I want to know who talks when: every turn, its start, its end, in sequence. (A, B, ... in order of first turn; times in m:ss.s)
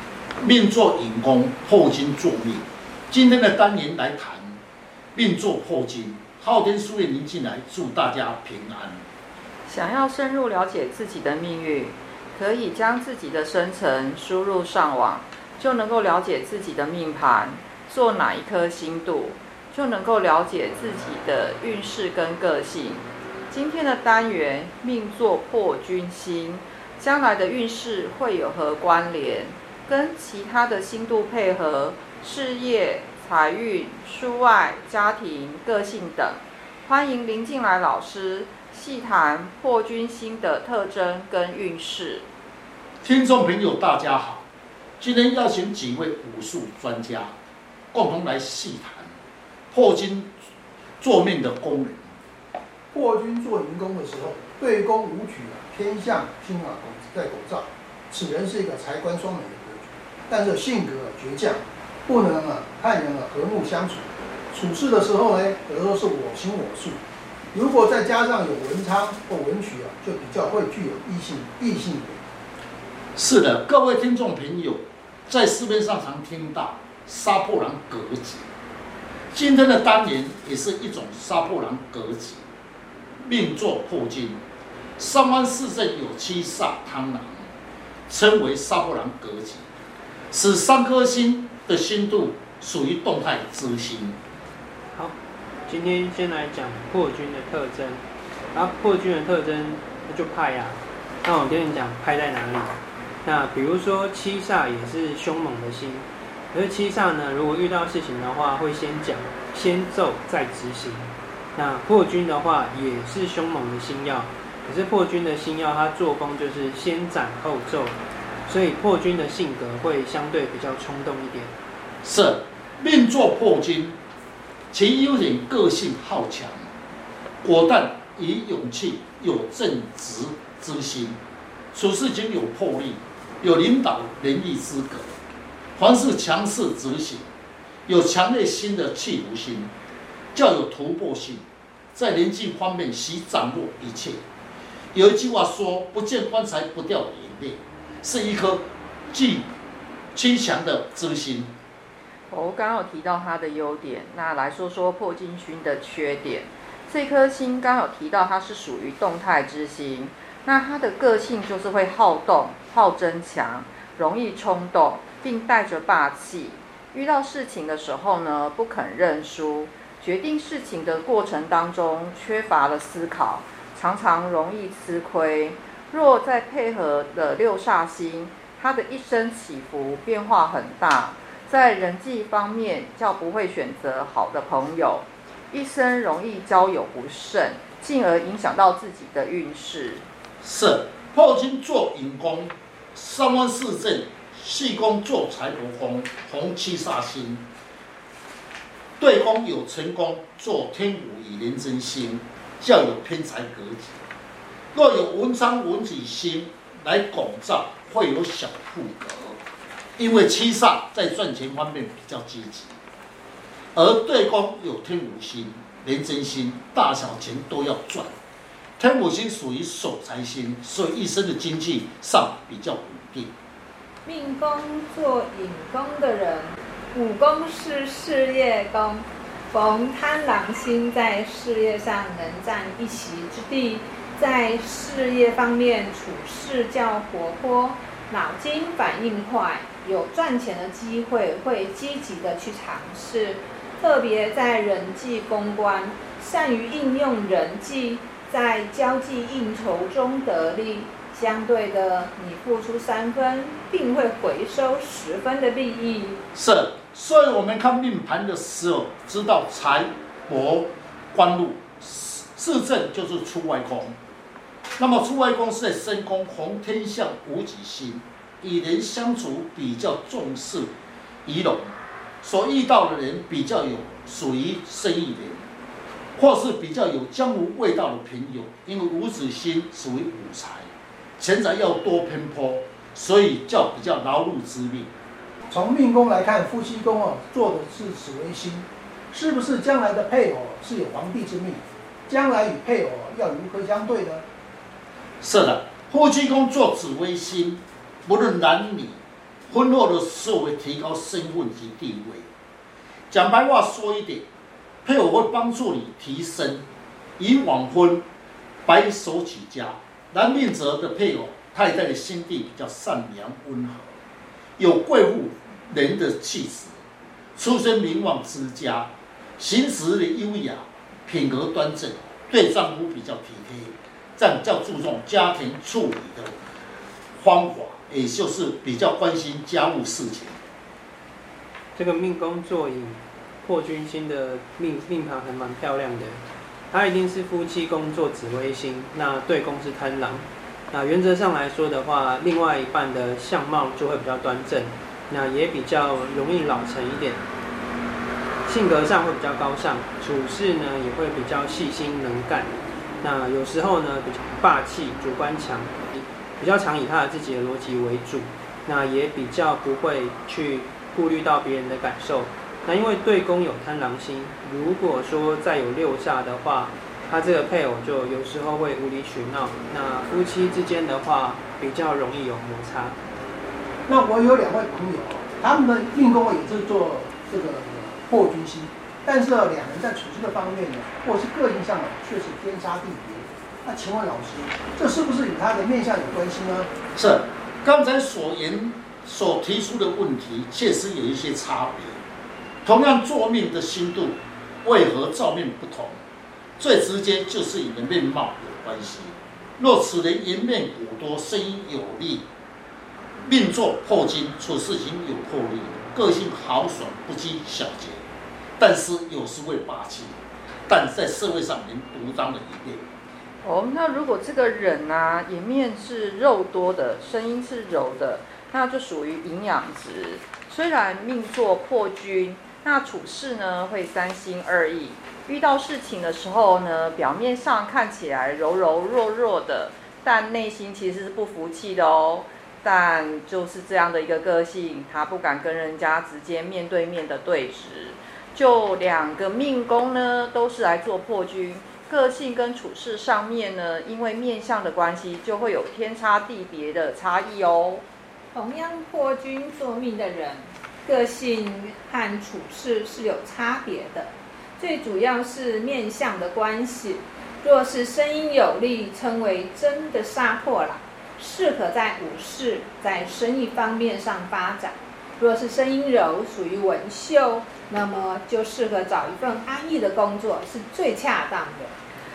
0:00.4-0:04.6 A
0:05.1-0:09.0 A
0:09.7-0:42.2 B
0:43.0-0:44.4 A
0:45.0-0:47.3 A
0:47.9-0:49.1 A
0:49.7-0:50.3 A
0:51.0-0:52.1 A
0:52.9-1:07.0 C
1:07.5-1:12.2 C
1:13.2-1:18.5 A
1:19.3-1:22.4 A
1:23.2-1:24.4 A
1:25.0-1:27.5 A
1:28.1-1:29.6 A
1:30.3-1:34.2 A
1:35.7-2:01.5 D
2:02.0-2:04.0 A
2:04.7-2:06.6 A
2:07.4-2:11.2 A
2:11.7-2:15.2 A
2:15.8-2:17.3 A
2:17.8-2:19.7 A
2:20.3-2:24.2 A
2:24.9-2:29.5 A
2:30.1-2:31.5 A
2:32.3-3:10.0 B
3:10.4-3:17.4 A
3:19.0-3:24.0 A
3:24.7-3:29.4 A
3:30.0-3:32.7 A
3:33.7-3:38.1 A
3:38.8-3:43.3 A
3:44.0-4:16.2 E
4:16.3-4:24.0 A
4:24.8-4:30.7 A
4:31.2-4:35.4 A
4:36.2-4:44.9 A
4:45.5-4:54.2 C
4:55.2-5:02.3 A
5:03.1-5:04.2 A
5:04.8-5:06.6 A
5:07.2-5:08.0 A
5:08.6-5:14.0 A
5:14.6-5:16.8 A
5:17.4-5:26.3 A
5:27.2-5:30.4 A
5:31.7-5:47.2 D
5:48.4-6:13.0 D
6:13.9-6:26.7 C
6:26.9-6:32.0 A
6:32.6-6:36.0 A
6:36.6-6:42.2 A
6:43.2-6:48.0 A
6:48.6-6:52.8 A
6:53.4-7:27.8 B
7:28.3-7:51.7 E